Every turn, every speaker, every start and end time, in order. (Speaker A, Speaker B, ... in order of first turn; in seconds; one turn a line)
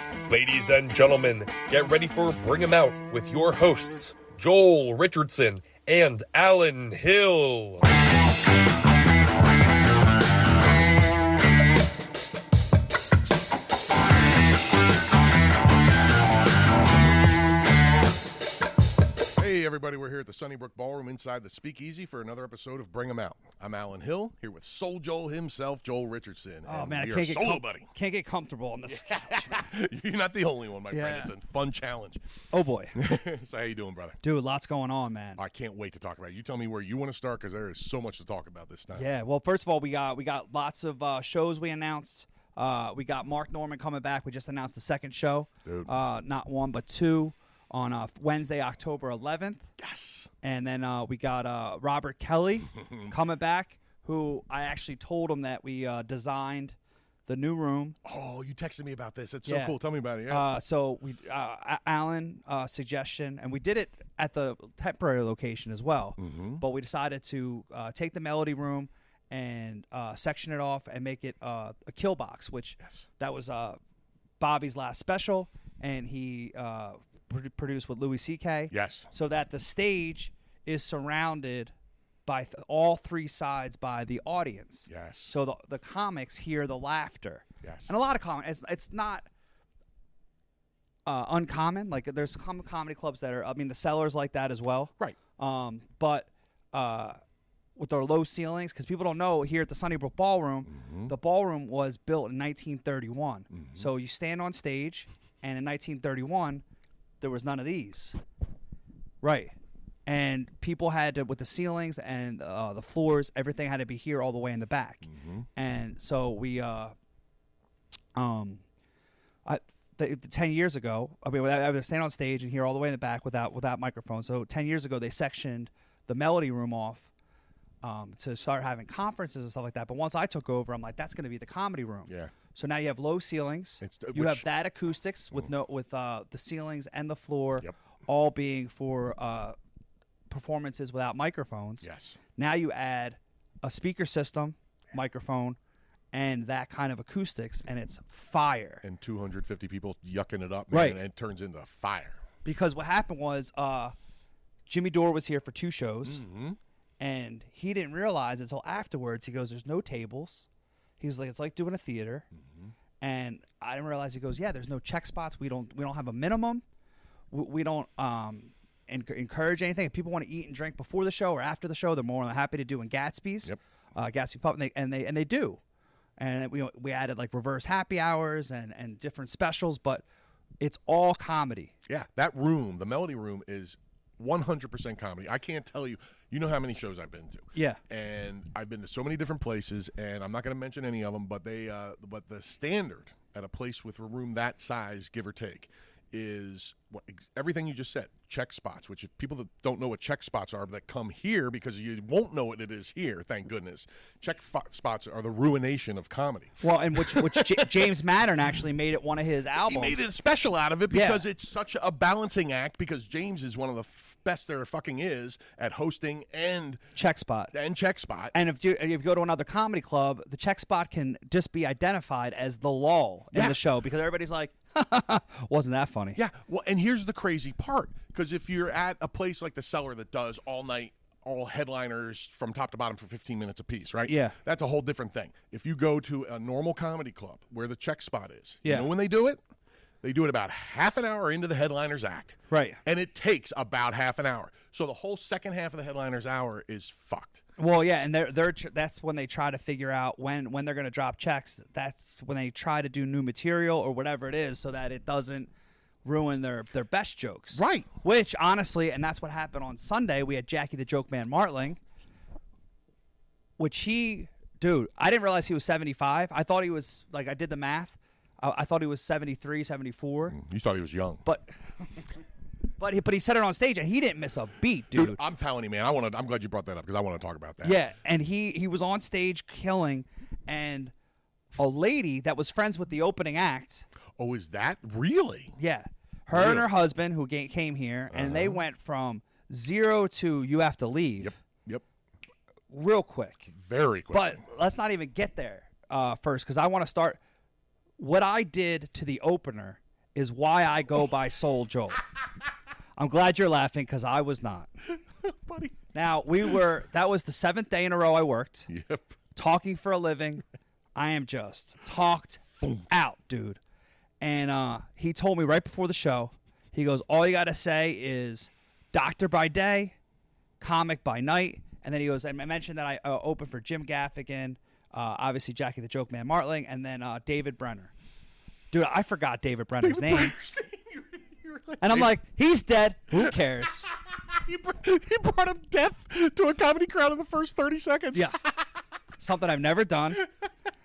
Speaker A: 0.3-7.9
Speaker B: 19.4-27.9
Speaker C: 26.6-29.6
Speaker B: 28.9-32.2
Speaker C: 30.9-31.3
Speaker C: 32.5-33.0
Speaker B: 32.9-34.2
Speaker C: 34.2-35.4
Speaker B: 35.4-39.1
Speaker C: 38.9-49.7
Speaker B: 45.6-45.9
Speaker B: 49.8-50.3
Speaker C: 50.4-58.0
Speaker B: 52.8-53.1
Speaker B: 58.0-60.5
Speaker C: 59.5-59.8
Speaker C: 60.3-73.8
Speaker B: 66.2-66.6
Speaker C: 74.4-81.7
Speaker B: 78.7-79.1
Speaker C: 82.2-89.3
Speaker B: 84.9-85.3
Speaker B: 87.6-87.9
Speaker C: 91.0-97.2
Speaker C: 97.8-106.6
Speaker B: 100.7-101.1
Speaker B: 103.5-103.9
Speaker C: 107.2-108.2
Speaker C: 109.2-109.5
Speaker C: 110.0-116.9
Speaker B: 115.0-115.5
Speaker C: 118.2-118.6
Speaker C: 119.5-127.1
Speaker C: 127.8-139.6
Speaker B: 133.8-134.4
Speaker C: 140.3-145.6
Speaker B: 141.8-142.2
Speaker C: 146.1-148.8
Speaker B: 148.8-152.2
Speaker C: 150.7-151.0
Speaker C: 152.4-153.9
Speaker C: 154.7-156.2
Speaker B: 156.0-156.6
Speaker C: 157.0-160.4
Speaker C: 161.0-162.3
Speaker B: 162.3-162.7
Speaker C: 163.0-166.6
Speaker C: 167.3-175.6
Speaker C: 176.2-180.0
Speaker C: 180.6-181.7
Speaker B: 181.9-208.0
Speaker C: 206.6-210.0
Speaker B: 209.6-216.8
Speaker C: 210.9-211.2
Speaker C: 216.9-217.5
Speaker B: 217.5-218.3
Speaker C: 218.3-226.2
Speaker B: 223.3-223.6
Speaker B: 226.2-239.4
Speaker C: 234.1-234.3
Speaker C: 238.6-238.9
Speaker B: 240.0-247.4
Speaker C: 242.5-242.8
Speaker C: 247.6-255.5
Speaker C: 256.0-261.8
Speaker B: 257.5-257.9
Speaker C: 263.6-270.4
Speaker B: 270.3-271.2
Speaker C: 271.2-271.5
Speaker C: 272.8-275.2
Speaker B: 274.9-277.8
Speaker C: 277.6-280.9
Speaker C: 281.5-283.9
Speaker B: 284.2-285.5
Speaker C: 285.6-291.3
Speaker B: 286.3-286.7
Speaker B: 288.1-288.6
Speaker B: 291.2-291.8
Speaker C: 292.7-293.5
Speaker B: 293.5-294.4
Speaker C: 294.1-297.2
Speaker C: 298.0-302.0
Speaker C: 303.0-304.7
Speaker B: 305.2-305.8
Speaker C: 305.9-308.7
Speaker B: 308.7-309.1
Speaker C: 309.3-310.4
Speaker C: 310.9-313.6
Speaker C: 314.2-319.9
Speaker C: 320.6-327.9
Speaker C: 328.7-330.3
Speaker B: 329.8-332.2
Speaker C: 331.8-333.9
Speaker B: 333.9-338.6
Speaker C: 339.2-340.2